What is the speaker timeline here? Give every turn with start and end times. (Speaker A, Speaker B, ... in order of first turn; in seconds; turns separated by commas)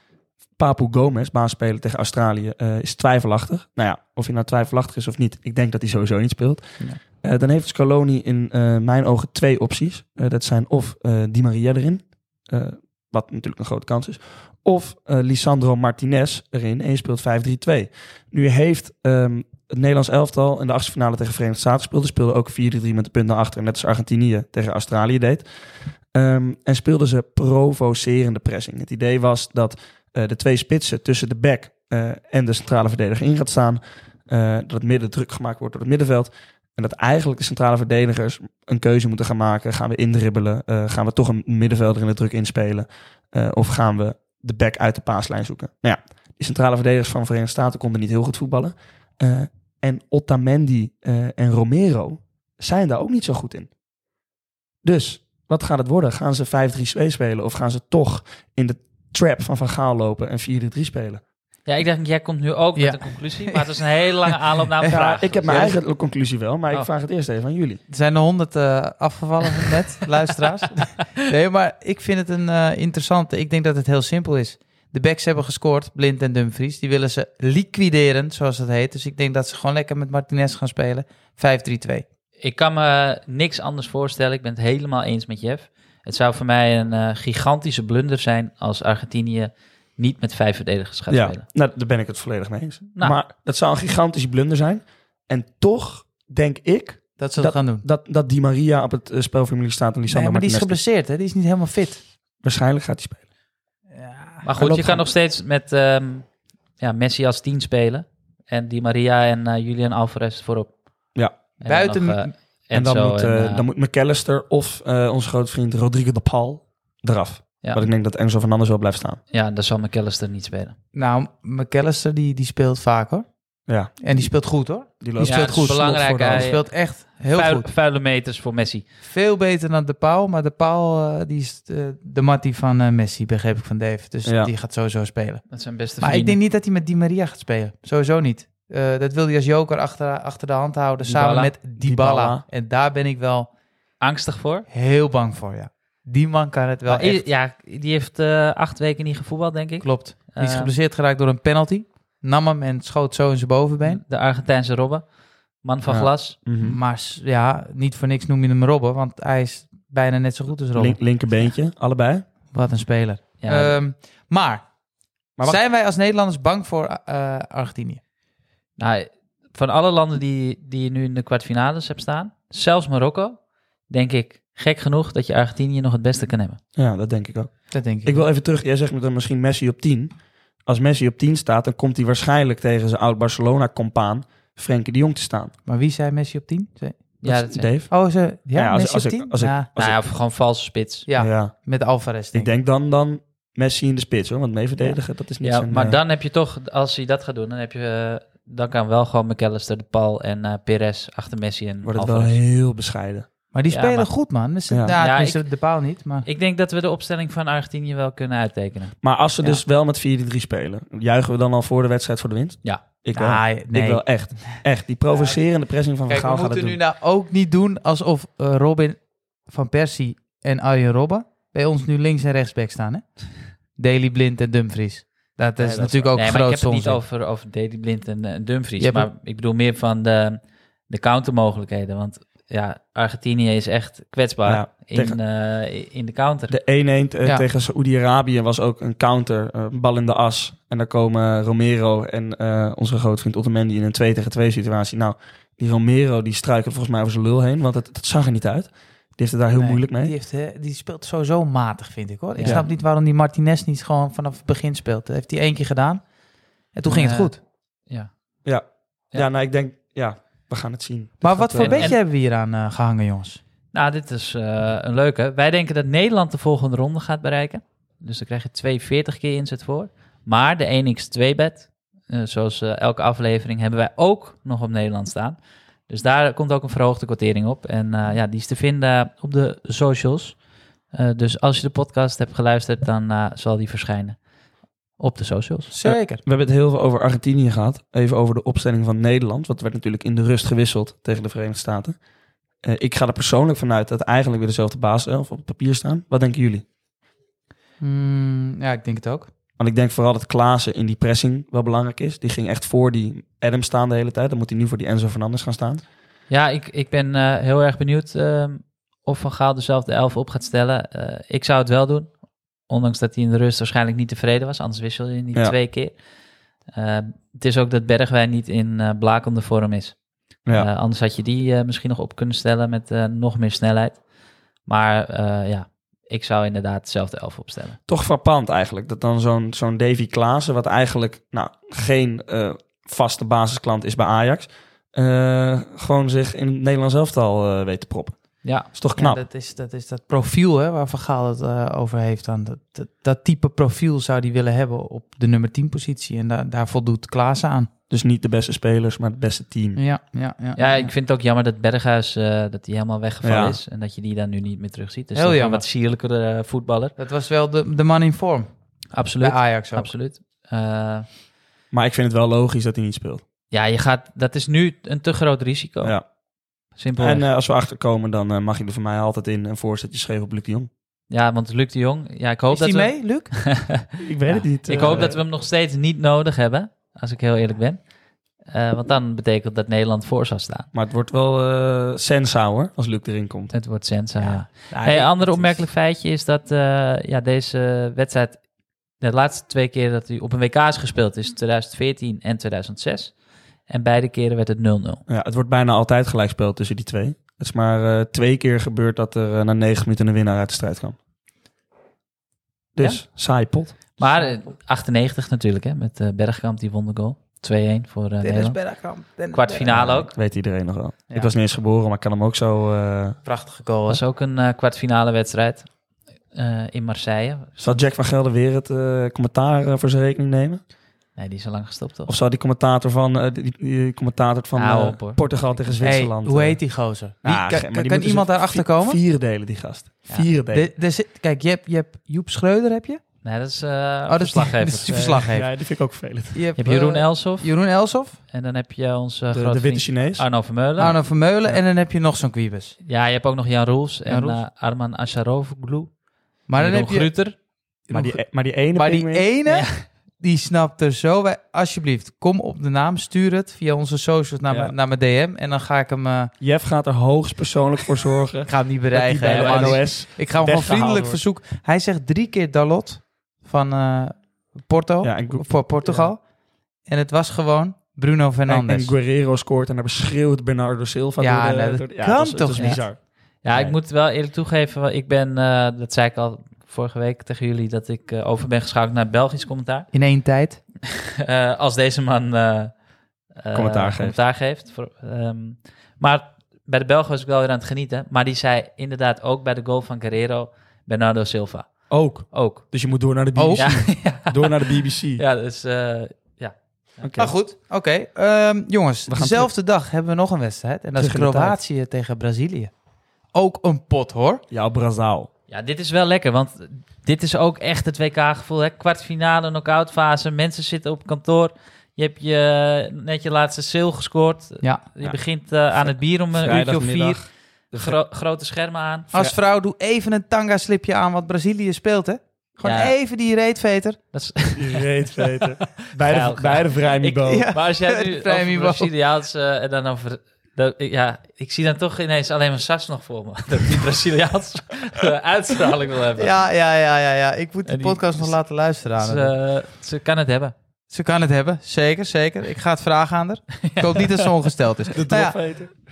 Speaker A: 0.6-25.5, Speaker A: 26.1-53.7, Speaker A: 54.8-61.2, Speaker B: 61.7-65.7, Speaker C: 62.8-64.3, Speaker C: 64.9-65.8, Speaker A: 64.9-67.8, Speaker C: 67.9-82.0, Speaker B: 82.4-91.4, Speaker A: 91.1-100.8, Speaker C: 97.2-97.8, Speaker C: 100.1-102.0, Speaker A: 102.4-103.2, Speaker C: 103.9-104.5, Speaker B: 104.4-110.7, Speaker A: 104.6-105.1, Speaker B: 111.6-113.7, Speaker C: 111.6-112.3, Speaker A: 112.7-119.2, Speaker B: 117.6-117.9, Speaker B: 119.3-120.8, Speaker C: 120.9-123.3, Speaker A: 123.7-126.5, Speaker C: 123.8-127.7, Speaker B: 125.2-128.8, Speaker C: 129.0-143.5, Speaker A: 134.2-134.5, Speaker B: 135.5-136.4, Speaker B: 141.0-141.5, Speaker A: 141.8-142.4, Speaker B: 144.0-144.7, Speaker C: 144.7-147.3, Speaker B: 146.9-150.7, Speaker C: 149.8-154.0, Speaker B: 153.8-156.4, Speaker A: 155.9-156.8, Speaker C: 156.6-161.1, Speaker A: 160.8-162.3, Speaker C: 162.5-164.7, Speaker B: 163.4-163.8, Speaker C: 165.4-168.0, Speaker B: 168.8-176.6, Speaker A: 176.8-185.5, Speaker C: 177.7-178.2, Speaker C: 185.7-187.1, Speaker B: 187.2-187.7, Speaker A: 187.2-188.0, Speaker C: 187.9-189.7, Speaker A: 188.5-190.2, Speaker B: 189.8-191.1, Speaker C: 191.1-192.5, Speaker A: 191.2-196.0, Speaker B: 195.4-202.4, Speaker A: 201.8-203.3, Speaker C: 203.5-206.3, Speaker B: 203.7-204.1, Speaker A: 204.7-205.0, Speaker B: 204.9-209.0, Speaker A: 209.0-216.8, Speaker C: 213.2-214.6, Speaker C: 215.1-215.4, Speaker C: 216.1-227.0, Speaker A: 225.6-226.2, Speaker B: 226.0-236.6, Speaker C: 228.8-229.1, Speaker A: 234.4-235.2, Speaker A: 236.5-250.1, Speaker C: 249.5-256.1, Speaker B: 252.4-252.7, Speaker C: 256.7-257.4, Speaker B: 256.9-257.4, Speaker A: 258.4-261.9, Speaker C: 261.2-263.4, Speaker B: 261.6-262.0, Speaker B: 263.7-280.4, Speaker B: 280.9-284.2, Speaker B: 285.0-285.7, Speaker C: 285.7-286.2, Speaker A: 285.8-292.0, Speaker A: 292.6-296.6, Speaker C: 297.8-299.3, Speaker A: 299.6-305.8, Speaker B: 306.3-312.1, Speaker B: 312.7-316.0, Speaker B: 316.7-324.1, Speaker B: 324.6-327.8, Speaker A: 327.9-339.2, Speaker B: 338.4-338.7, Speaker C: 339.0-347.7, Speaker A: 347.9-349.8, Speaker C: 349.8-350.9, Speaker B: 350.6-356.9, Speaker A: 353.2-353.6, Speaker C: 355.1-355.7, Speaker C: 357.0-360.0, Speaker B: 358.9-361.1, Speaker A: 361.7-363.2, Speaker B: 363.5-366.0, Speaker B: 366.7-367.3, Speaker A: 367.0-370.7, Speaker B: 371.1-373.8, Speaker C: 372.5-373.7, Speaker A: 374.0-375.2, Speaker C: 374.3-375.1, Speaker B: 374.6-380.7, Speaker A: 380.7-383.6, Speaker B: 383.5-388.4, Speaker C: 384.2-385.7, Speaker B: 389.0-393.2, Speaker B: 393.7-395.0, Speaker A: 395.1-401.0, Speaker A: 402.7-404.0, Speaker B: 404.0-408.6, Speaker C: 408.2-409.9, Speaker B: 409.3-410.1, Speaker A: 409.6-413.2, Speaker C: 413.2-414.0, Speaker B: 413.9-415.8, Speaker B: 416.3-417.6, Speaker A: 417.6-420.6, Speaker B: 421.1-422.1, Speaker A: 422.1-430.7, Speaker B: 424.6-426.0, Speaker C: 425.8-429.0, Speaker C: 430.1-433.0, Speaker B: 433.2-435.2, Speaker C: 434.1-435.6, Speaker A: 434.9-436.4, Speaker C: 436.3-438.2, Speaker B: 436.6-437.6, Speaker B: 438.3-441.0, Speaker A: 439.3-441.6, Speaker C: 440.8-442.8, Speaker B: 442.9-445.9, Speaker C: 444.1-444.4, Speaker C: 446.5-447.2, Speaker B: 446.6-447.4, Speaker A: 447.9-449.3, Speaker C: 447.9-456.3, Speaker B: 449.5-449.8, Speaker A: 454.5-454.8, Speaker A: 456.4-461.2, Speaker C: 458.5-466.3, Speaker B: 459.2-459.9, Speaker A: 465.0-465.8, Speaker B: 465.9-466.1, Speaker C: 466.8-468.9, Speaker A: 468.5-473.8, Speaker C: 471.2-472.9, Speaker B: 472.6-479.9, Speaker C: 479.9-480.6, Speaker B: 481.2-482.8, Speaker B: 483.4-492.6, Speaker A: 483.5-484.2, Speaker A: 491.9-495.2, Speaker C: 493.4-493.7, Speaker B: 493.5-497.1, Speaker A: 497.0-497.4, Speaker C: 497.2-502.7, Speaker A: 499.1-499.5, Speaker A: 501.0-501.6, Speaker C: 503.3-504.4, Speaker A: 504.5-505.3, Speaker B: 505.5-519.1, Speaker A: 515.7-518.0, Speaker A: 519.1-519.4, Speaker C: 519.1-524.0, Speaker B: 522.6-522.9, Speaker B: 524.1-524.9, Speaker A: 524.5-527.5, Speaker B: 526.0-536.4, Speaker C: 527.3-528.9, Speaker C: 536.2-539.4, Speaker B: 537.7-538.4, Speaker B: 539.0-540.5, Speaker C: 540.9-545.6, Speaker B: 543.6-544.1, Speaker A: 544.9-545.8